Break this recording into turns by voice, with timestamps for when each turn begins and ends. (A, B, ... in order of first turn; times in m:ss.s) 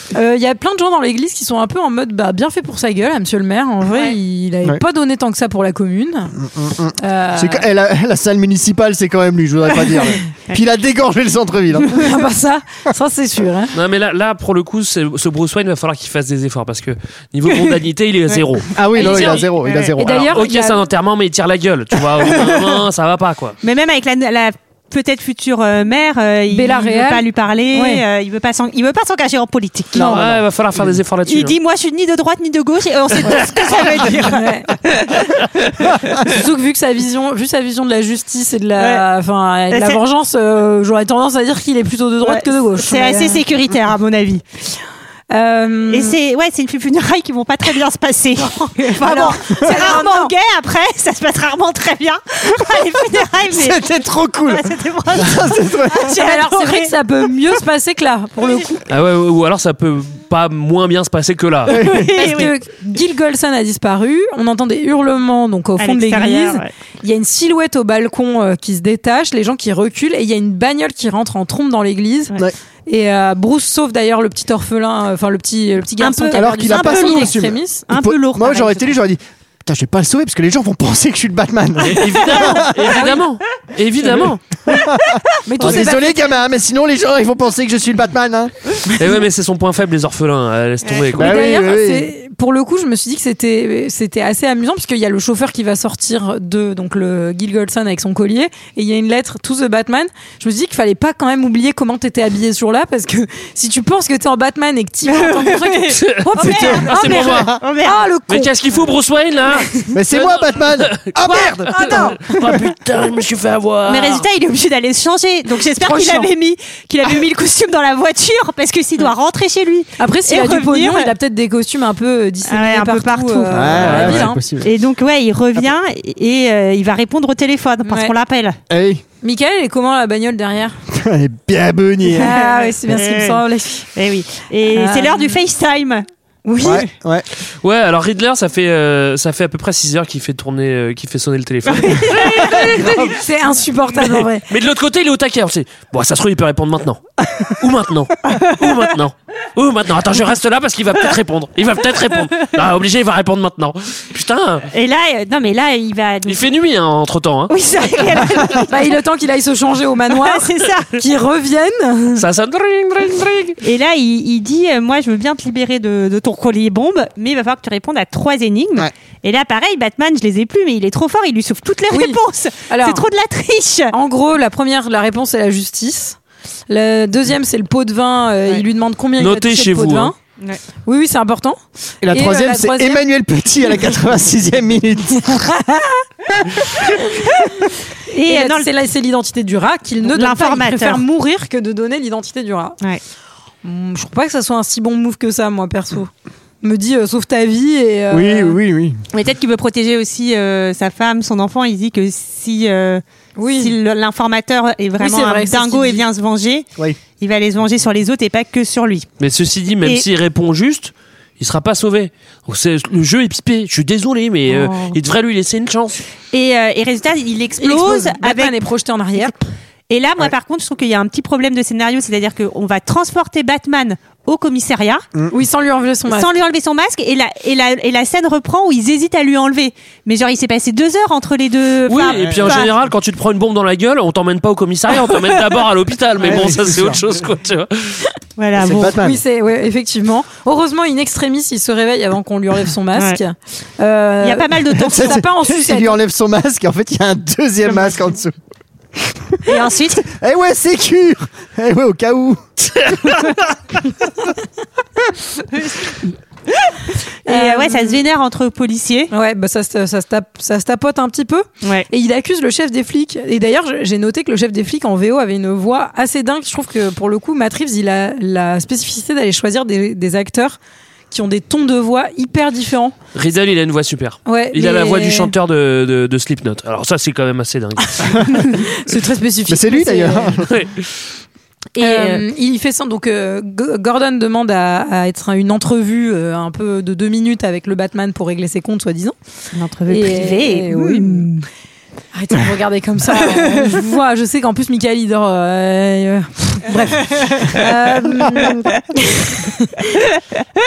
0:00.1-0:06.4 A
0:03.9-0:04.2 B
0:06.4-0:12.1 C
0:07.0-0:07.6 A
0:11.8-0:13.7 A
0:13.7-0:19.4 D
0:18.8-0:20.3 C
0:19.0-0:19.9 B
0:20.0-0:20.8 A
0:20.0-0:23.6 D
0:23.6-0:30.2 B
0:26.5-0:28.0 A
0:29.9-0:31.0 C
0:30.0-0:31.6 D
0:31.3-0:35.3 B
0:34.2-0:34.8 A
0:36.2-0:43.4 A
0:38.8-0:39.0 B
0:39.7-0:40.0 B
0:42.2-0:44.4 B
0:45.3-0:46.2 A
0:45.9-0:56.9 B
0:48.4-0:50.3 A
0:53.5-0:56.1 C
0:56.0-0:58.8 A
0:58.9-1:01.8 D
1:01.7-1:02.4 C
1:01.9-1:02.5 B
1:02.1-1:12.4 A
1:05.8-1:06.7 B
1:12.9-1:17.8 A
1:16.0-1:18.9 B
1:16.4-1:23.0 C
1:21.8-1:24.4 D
1:24.7-1:28.5 C
1:25.4-1:26.4 A
1:29.0-1:31.4 D
1:31.1-1:32.1 C
1:31.2-1:48.5 A
1:45.0-1:48.1 B
1:46.0-1:47.5 D
1:46.5-1:47.6 C
1:48.3-1:54.3 D
1:49.9-1:52.0 C
1:51.7-1:52.5 A
1:53.9-2:01.1 B
1:55.5-1:56.3 A
2:00.0-2:04.4 A
2:02.4-2:08.6 B
2:03.5-2:04.7 C
2:03.8-2:04.2 D
2:07.8-2:08.1 A
2:08.7-2:09.0 C
2:09.2-2:10.8 A
2:10.9-2:12.4 C
2:12.1-2:13.9 A
2:12.2-2:16.0 B
2:14.7-2:15.4 A
2:16.5-2:16.9 A
2:16.6-2:17.2 C
2:17.6-2:23.1 D
2:22.1-2:24.5 A
2:23.9-2:34.7 D
2:34.7-2:36.5 B
2:36.3-2:37.5 D
2:37.5-2:38.8 B
2:38.7-2:42.2 A
2:40.1-2:41.0 B
2:42.2-2:43.6 D
2:43.6-2:53.9 B
2:51.9-2:53.0 A
2:53.9-2:56.2 A
2:56.7-3:00.2 A
2:59.2-3:00.1 D
3:00.8-3:01.6 A
3:02.0-3:05.4 C
3:02.1-3:03.0 A
3:05.3-3:05.9 A
3:06.7-3:07.3 A
3:08.1-3:08.7 B
3:08.2-3:12.8 A
3:10.1-3:11.0 B
3:13.6-3:16.1 A
3:16.6-3:18.6 A
3:18.1-3:19.0 C
3:19.1-3:29.1 B
3:23.4-3:23.8 A
3:25.0-3:26.1 A
3:29.2-3:36.0 D
3:34.5-3:35.0 B
3:36.3-3:38.6 B
3:37.6-3:39.3 A
3:39.9-3:45.0 B
3:45.3-3:46.4 A
3:46.1-3:52.7 B
3:51.9-3:58.0 D
3:52.1-3:52.7 C
3:56.2-3:57.0 C
3:58.4-3:59.0 B
3:58.6-3:59.2 C
3:58.9-4:05.9 A
4:02.9-4:03.2 B
4:04.2-4:05.2 B
4:04.8-4:08.3 C
4:09.1-4:13.2 C
4:09.5-4:10.1 B
4:16.7-4:19.1 B
4:17.3-4:18.0 A
4:19.1-4:30.6 A
4:31.1-4:33.0 A
4:33.2-4:38.3 D
4:34.3-4:35.3 A
4:38.4-4:40.4 A
4:39.5-4:40.5 C
4:40.5-4:40.8 D
4:41.8-4:42.2 B
4:41.8-4:49.2 A
4:49.5-4:51.5 B
4:49.9-4:51.3 A
4:52.1-5:00.0 A
4:53.2-4:53.7 B
4:58.0-4:58.8 B